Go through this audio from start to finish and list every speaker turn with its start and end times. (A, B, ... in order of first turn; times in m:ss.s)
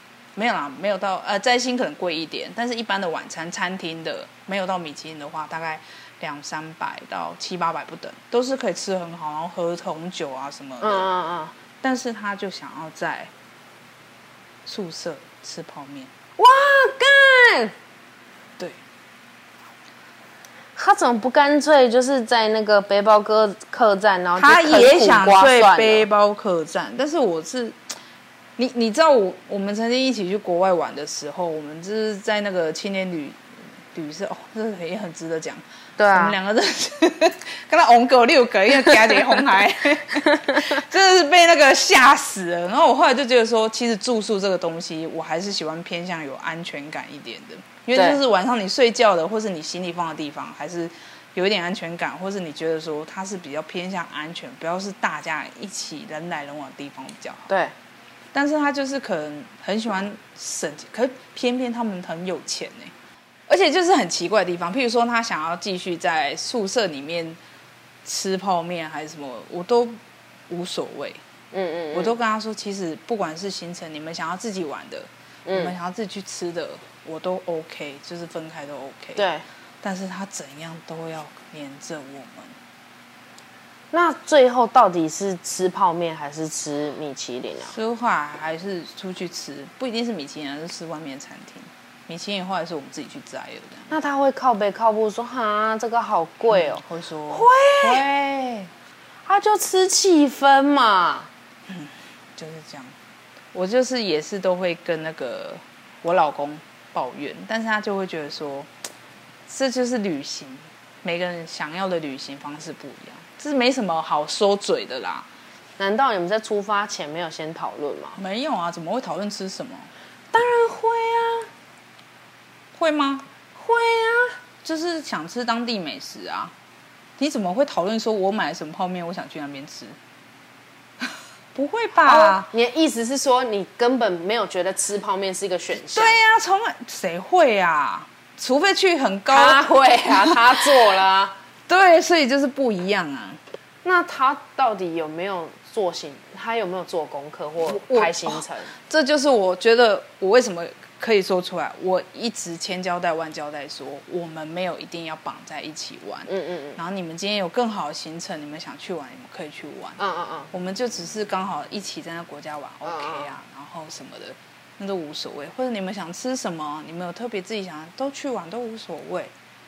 0:00.4-0:11.1 A
0:10.8-0:11.6 B
0:11.8-0:13.3 A
0:14.7-0:16.1 A
0:16.4-0:17.7 B
0:20.8-0:26.1 B
0:24.4-0:27.8 A
0:28.6-0:33.4 A
0:33.9-0:57.5 A
0:36.0-0:36.4 B
0:40.2-0:40.8 B
0:48.0-0:48.2 B
0:57.5-0:57.7 B
0:58.3-1:02.9 A
1:03.5-1:07.4 A
1:08.0-1:11.2 A
1:11.5-1:12.2 B
1:11.9-1:19.2 A
1:15.5-1:15.8 B
1:19.2-1:19.4 B
1:19.8-1:22.6 A
1:23.9-1:27.8 B
1:27.7-1:33.9 A
1:33.9-1:38.0 B
1:36.5-1:38.7 A
1:39.3-1:41.3 B
1:41.7-1:43.0 A
1:43.5-1:48.7 A
1:49.5-1:55.3 A
1:55.8-1:58.2 B
1:58.2-1:59.9 A
2:00.3-2:01.5 B
2:02.8-2:03.3 A
2:03.6-2:04.4 B
2:04.6-2:06.5 A
2:07.2-2:10.0 A
2:11.0-2:12.5 A
2:12.0-2:16.2 B
2:15.9-2:20.4 A
2:19.3-2:21.4 B
2:21.7-2:23.4 A
2:23.8-2:28.7 B
2:27.6-2:40.0 A
2:36.3-2:36.8 B
2:40.0-2:40.5 B
2:40.5-2:49.3 A
2:42.8-2:43.3 B